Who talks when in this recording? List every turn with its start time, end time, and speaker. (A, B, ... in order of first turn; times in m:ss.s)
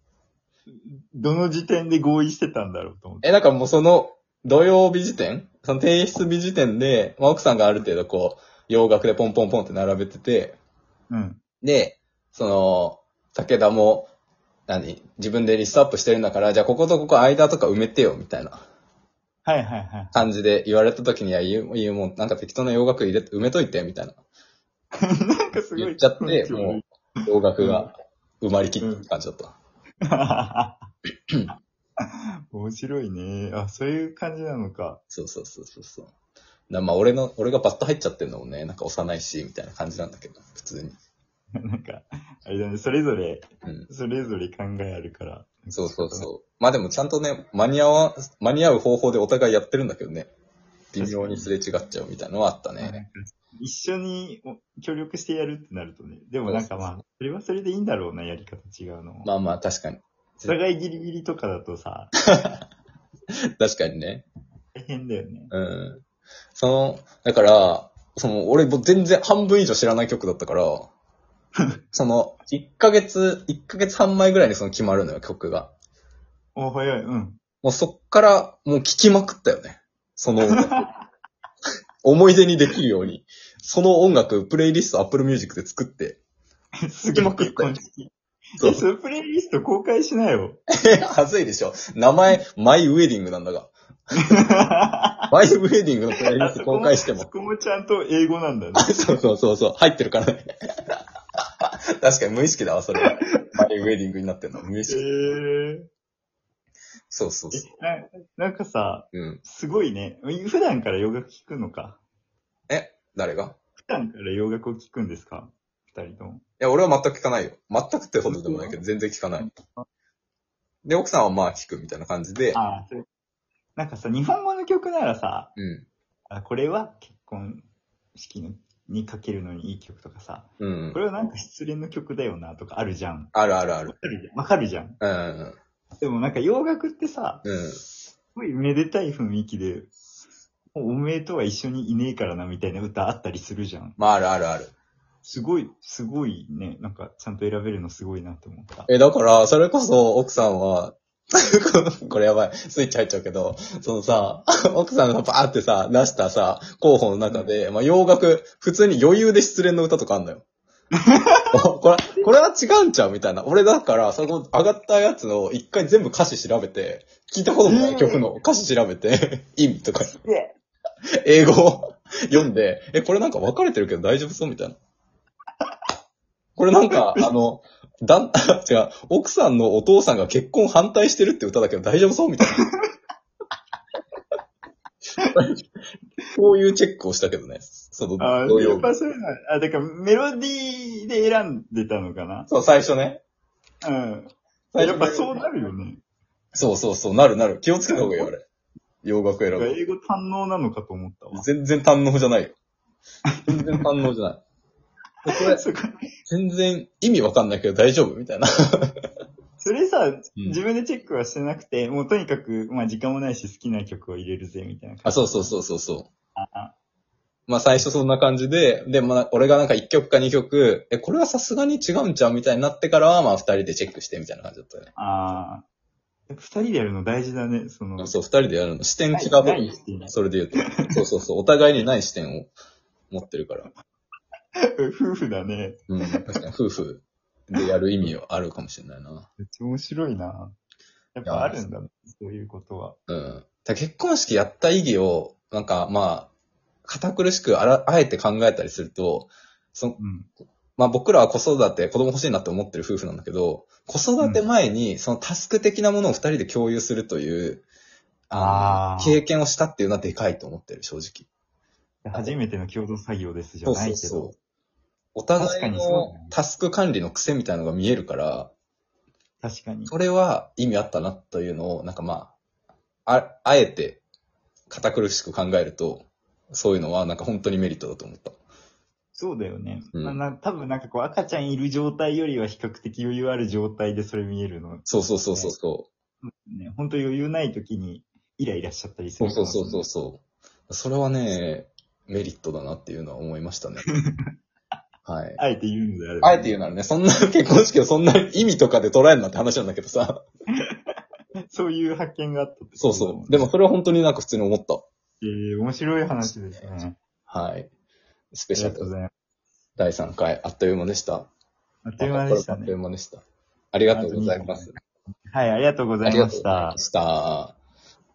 0:00.9-0:03.3 A
0:03.2-0:10.6 B
0:11.1-0:11.4 A
0:11.6-0:14.1 B
0:14.7-0:18.6 B
0:19.4-0:20.2 A
0:20.1-0:24.2 B
0:25.0-0:27.9 A
0:25.7-0:29.6 B
0:28.8-0:29.1 A
0:30.1-0:30.9 A
0:32.0-0:35.0 A
0:35.1-0:36.1 B
0:36.7-0:41.0 B
0:41.6-0:46.3 A
0:45.7-0:50.3 B
0:50.9-0:53.0 B
0:51.0-0:51.5 A
0:52.8-0:59.3 A
0:56.5-0:57.0 B
0:59.2-1:00.6 B
1:00.4-1:02.1 A
1:02.3-1:02.6 B
1:03.6-1:04.2 B
1:04.8-1:05.5 A
1:05.5-1:06.0 B
1:06.6-1:10.9 B
1:11.9-1:15.7 B
1:16.6-1:17.4 A
1:17.6-1:20.8 B
1:20.5-1:20.9 A
1:22.0-1:26.2 B
1:26.8-1:30.6 A
1:27.1-1:27.8 B
1:28.6-1:28.8 B
1:30.8-1:33.7 B
1:34.3-1:35.3 A
1:35.3-1:37.3 B
1:36.3-1:39.1 A
1:38.8-1:41.0 B
1:41.6-1:45.0 B
1:43.0-1:43.4 A
1:44.9-1:45.9 A
1:47.1-1:47.7 B
1:47.5-1:52.0 A
1:49.1-1:49.4 B
1:52.7-1:53.6 B
1:53.8-1:56.4 A
1:56.6-1:59.5 B
1:58.3-1:58.8 A
1:59.4-1:59.8 A
2:00.8-2:02.6 B
2:02.5-2:03.0 A
2:03.8-2:05.5 A
2:05.6-2:05.9 B
2:06.3-2:13.3 A
2:10.6-2:11.0 B
2:13.3-2:14.0 B
2:13.9-2:15.0 A
2:15.0-2:15.6 B
2:16.0-2:17.4 A
2:17.4-2:17.8 B
2:18.4-2:19.9 A
2:20.7-2:24.0 A
2:24.0-2:24.7 B
2:25.2-2:28.9 A
2:28.9-2:40.4 B
2:41.1-2:41.5 A
2:41.5-2:50.1 B
2:47.7-2:48.3 A
2:50.1-2:50.6 A
2:51.2-2:54.8 B
2:56.6-3:02.6 B
2:56.9-2:57.3 A
3:06.3-3:08.9 B
3:08.2-3:12.5 A
3:12.5-3:13.2 B
3:13.8-3:16.0 A
3:14.7-3:15.4 B
3:16.6-3:18.4 B
3:17.9-3:18.3 A
3:19.0-3:19.8 B
3:19.5-3:21.5 A
3:21.3-3:22.6 B
3:23.4-3:23.8 A
3:23.5-3:24.4 B
3:25.2-3:25.6 B
3:25.2-3:26.0 A
3:26.3-3:28.9 B
3:29.6-3:35.5 A
3:35.1-3:36.1 B
3:36.4-3:36.7 A
3:37.5-3:44.9 B
3:45.0-3:45.6 A
3:46.3-3:48.1 A
3:48.0-3:52.5 B
3:49.1-3:51.0 A
3:53.1-3:53.7 B
3:54.6-3:56.4 A
3:55.9-3:59.3 B
3:59.4-4:00.6 A
4:01.2-4:03.0 A
4:01.2-4:01.6 B
4:03.1-4:06.3 B
4:06.8-4:10.0 B
4:10.0-4:10.3 A
4:10.8-4:17.6 B
4:18.3-4:21.3 B
4:18.4-4:19.2 A
4:22.0-4:24.4 A
4:23.6-4:24.3 B
4:25.2-4:28.5 B
4:25.4-4:26.4 A
4:29.4-4:29.9 A
4:29.9-4:32.3 B
4:33.1-4:34.0 B
4:34.7-4:38.4 B
4:39.2-4:45.6 A
4:39.9-4:40.2 B
4:44.9-4:45.9 B
4:46.2-4:49.9 A
4:49.2-4:53.8 B
4:55.1-4:55.4 B
4:55.4-4:56.6 A
4:56.2-5:00.2 B
5:00.6-5:01.0 A
5:01.5-5:03.5 A
5:02.8-5:04.9 B
5:05.2-5:07.0 A
5:07.3-5:07.7 B
5:08.3-5:08.9 B
5:08.5-5:09.1 A
5:09.8-5:11.3 B
5:11.9-5:12.8 A
5:12.0-5:14.7 B
5:13.9-5:16.8 A
5:16.0-5:17.6 B